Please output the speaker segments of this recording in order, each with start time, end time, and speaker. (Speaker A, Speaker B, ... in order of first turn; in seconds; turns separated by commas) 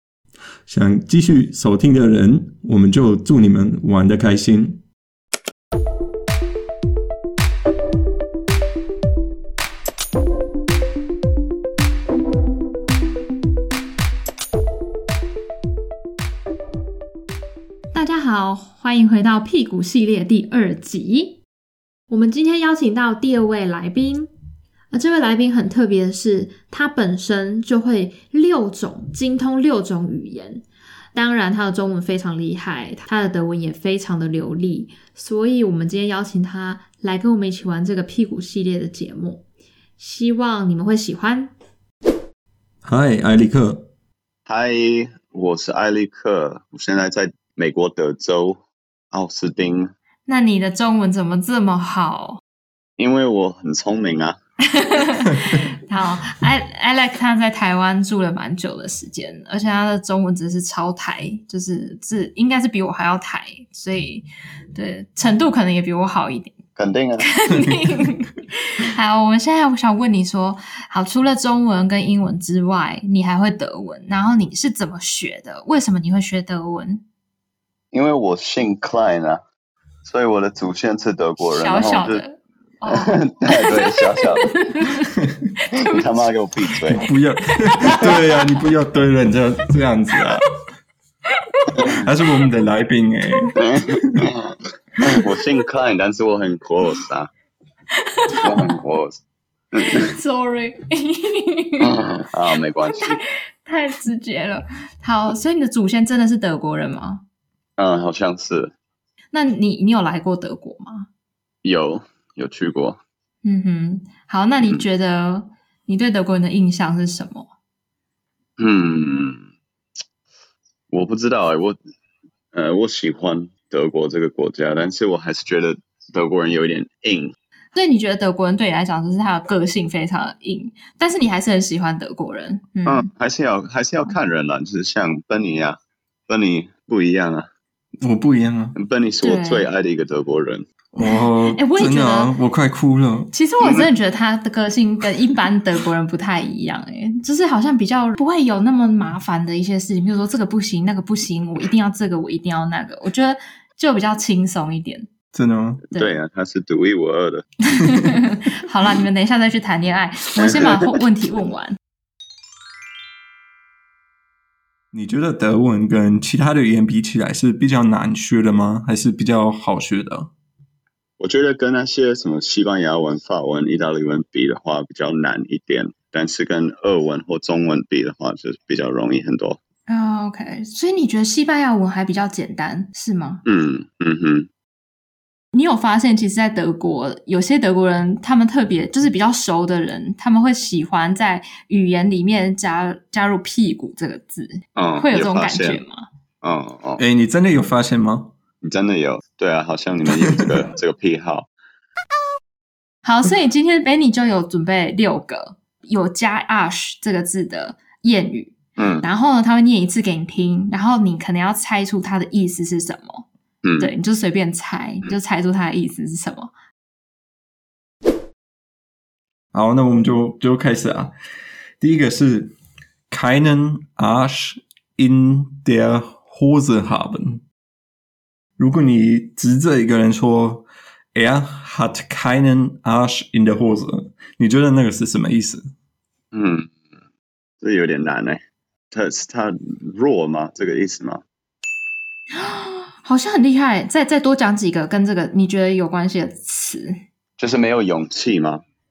Speaker A: 0.7-4.8, Speaker B: 17.9-21.4, Speaker B: 22.1-24.3, Speaker B: 24.9-39.5, Speaker B: 40.0-41.5, Speaker A: 42.8-43.9, Speaker C: 44.5-48.6, Speaker C: 49.1-49.9, Speaker B: 50.3-52.4, Speaker C: 53.0-54.4, Speaker B: 54.7-66.6, Speaker C: 66.8-67.3, Speaker B: 67.2-77.0, Speaker C: 77.9-79.4, Speaker C: 80.0-82.2, Speaker B: 81.4-85.1, Speaker C: 82.9-84.5, Speaker C: 85.8-87.1, Speaker A: 86.9-90.5, Speaker B: 87.8-88.4, Speaker B: 91.5-91.9, Speaker A: 91.9-94.3, Speaker C: 93.6-97.3, Speaker B: 98.0-98.7, Speaker C: 98.4-99.2, Speaker C: 99.7-100.0, Speaker B: 99.8-101.9, Speaker C: 101.8-103.2, Speaker B: 102.8-107.2, Speaker C: 107.8-108.7, Speaker B: 109.3-111.1, Speaker C: 111.6-113.0, Speaker B: 113.4-117.5, Speaker C: 118.6-119.5, Speaker C: 120.9-121.8, Speaker C: 122.5-127.3, Speaker B: 127.7-133.1, Speaker C: 132.9-137.5, Speaker A: 138.0-138.8, Speaker C: 138.8-140.7, Speaker B: 139.2-139.7, Speaker A: 140.9-143.3, Speaker B: 141.0-142.3, Speaker B: 143.3-155.1, Speaker C: 143.6-143.9, Speaker A: 155.3-155.8, Speaker C: 155.9-157.5, Speaker B: 157.9-161.8, Speaker C: 160.4-160.9, Speaker A: 164.9-170.3, Speaker C: 171.2-179.6, Speaker B: 179.9-183.4, Speaker C: 183.4-184.5, Speaker B: 185.5-196.1, Speaker C: 194.8-195.8, Speaker C: 196.4-197.0, Speaker A: 197.0-198.3, Speaker C: 198.6-201.5, Speaker B: 203.0-213.3, Speaker C: 208.8-209.1, Speaker C: 213.6-213.9, Speaker B: 213.8-216.5, Speaker A: 219.5-221.2, Speaker A: 221.8-222.5, Speaker A: 223.1-227.4, Speaker A: 228.6-235.7, Speaker C: 236.3-236.7, Speaker C: 237.6-238.4, Speaker C: 238.9-241.2, Speaker B: 242.3-247.0, Speaker C: 247.4-248.6